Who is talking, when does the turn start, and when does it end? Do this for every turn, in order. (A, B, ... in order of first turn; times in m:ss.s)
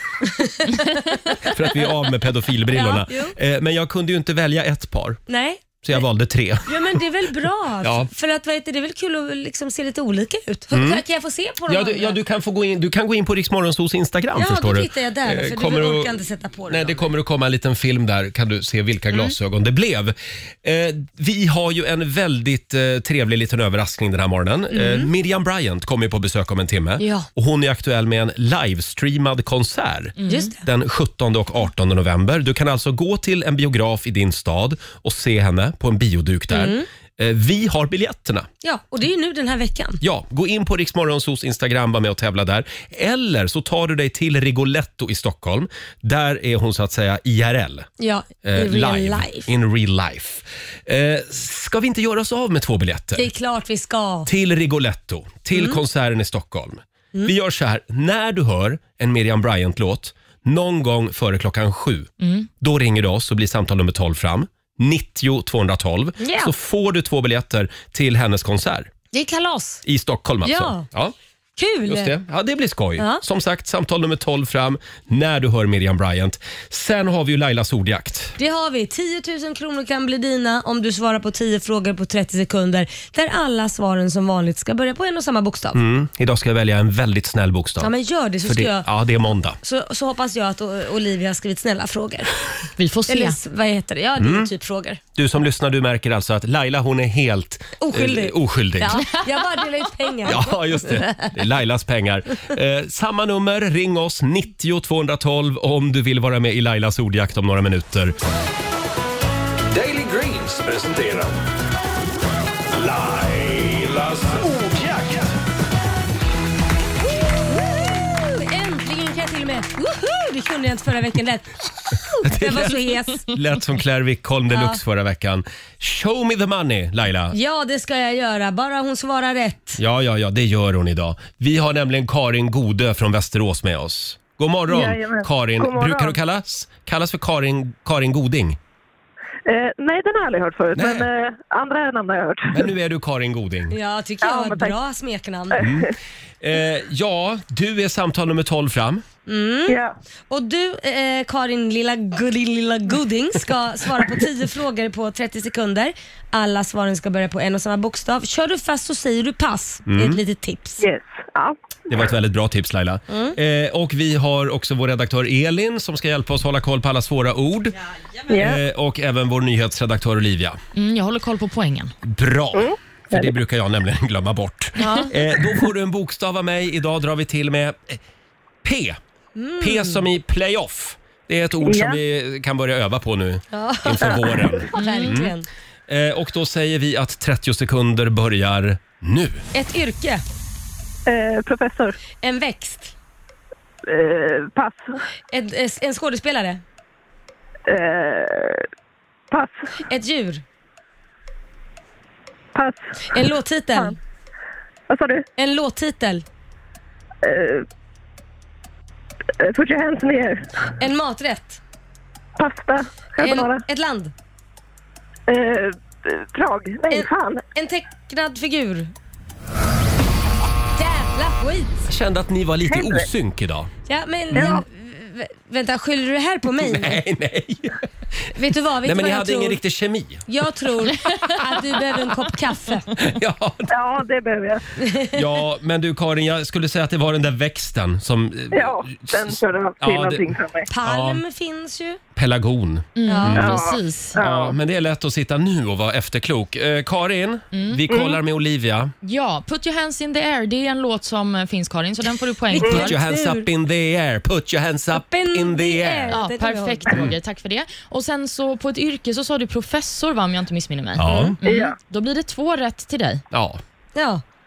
0:00.2-0:01.8 A
0:01.4-0:05.2 B
0:02.7-0:03.4 A
0:05.3-0:06.0 A
0:05.8-0:07.0 B
0:06.7-0:12.2 A
0:07.8-0:08.1 B
0:10.7-0:11.0 B
0:11.7-0:16.2 B
0:14.4-0:17.0 A
0:16.7-0:38.5 B
0:24.7-0:25.1 A
0:27.0-0:27.3 A
0:30.2-0:30.5 C
0:30.3-0:30.6 A
0:36.5-0:36.9 A
0:38.6-0:40.0 A
0:40.0-0:47.9 B
0:48.0-0:49.5 A
0:48.4-0:53.3 B
0:53.2-0:54.3 A
0:54.3-1:08.9 B
1:02.2-1:02.5 C
1:06.2-1:06.5 A
1:09.1-1:09.8 A
1:09.8-1:11.2 B
1:10.4-1:10.9 A
1:11.6-1:12.2 A
1:11.9-1:18.4 B
1:13.0-1:13.2 A
1:18.4-1:25.8 A
1:25.7-1:27.9 B
1:27.8-1:28.9 A
1:28.5-1:29.6 B
1:29.6-1:32.3 A
1:32.8-1:33.4 C
1:33.1-1:35.0 A
1:34.2-1:34.5 B
1:35.2-1:39.0 B
1:37.8-1:41.3 A
1:40.3-1:48.2 B
1:49.7-1:51.4 D
1:52.7-1:55.3 D
1:58.1-2:03.3 A
2:02.2-2:07.4 B
2:04.5-2:04.8 A
2:07.3-2:09.8 A
2:09.8-2:18.6 B
2:14.7-2:16.2 E
2:19.5-2:22.6 E
2:20.7-2:21.1 B
2:22.5-2:23.8 B
2:23.7-2:25.7 A
2:24.2-2:24.8 E
2:25.5-2:25.9 E
2:25.6-2:29.0 B
2:29.3-2:29.8 A
2:29.7-2:30.0 E
2:30.3-2:40.8 A
2:39.9-2:40.2 B
2:40.8-2:41.6 E
2:41.9-2:47.8 B
2:43.1-2:43.4 A
2:48.3-2:48.6 E
2:48.3-2:50.6 B
2:50.8-2:51.9 C
2:52.0-2:58.0 B
2:52.5-2:53.3 E
2:54.8-2:55.0 C
2:54.8-2:55.1 A
2:58.6-2:59.0 B
2:59.4-3:00.0 A
2:59.6-3:05.3 B
3:01.6-3:02.0 E
3:03.5-3:05.5 A
3:04.8-3:05.2 C
3:05.9-3:09.4 B
3:09.5-3:10.2 A
3:11.1-3:12.0 E
3:12.2-3:12.9 A
3:13.8-3:15.0 E
3:15.3-3:16.6 A
3:17.7-3:18.7 E
3:19.3-3:19.8 E
3:19.9-3:20.4 A
3:22.6-3:23.9 E
3:23.1-3:24.0 A
3:24.9-3:25.2 E
3:25.4-3:26.2 A
3:27.2-3:27.7 E
3:29.4-3:30.5 E
3:30.8-3:31.6 A
3:32.4-3:33.6 E
3:33.2-3:34.1 A
3:35.3-3:37.4 E
3:36.9-3:38.9 A
3:40.8-3:41.8 A
3:41.9-3:43.7 B
3:42.7-3:43.0 E
3:43.9-3:47.0 A
3:44.3-3:44.6 E
3:46.6-3:48.3 B
3:48.3-3:49.6 A
3:48.8-3:50.3 B
3:50.3-3:52.9 A
3:53.0-3:53.7 B
3:53.7-3:54.6 E
3:54.8-3:55.2 A
3:55.1-4:00.3 B
3:58.5-4:00.7 E
4:00.7-4:02.0 A
4:00.8-4:01.2 B
4:02.2-4:08.9 B
4:03.0-4:04.2 C
4:03.1-4:03.5 A
4:03.4-4:04.6 E
4:07.5-4:07.8 C
4:07.9-4:08.2 E
4:09.0-4:13.0 C
4:12.5-4:13.5 A
4:12.6-4:16.2 B
4:14.9-4:17.1 A
4:16.1-4:23.2 C
4:16.9-4:17.2 B
4:21.0-4:21.4 B
4:21.1-4:21.3 A
4:21.4-4:21.8 E
4:23.3-4:23.6 B
4:24.0-4:24.2 A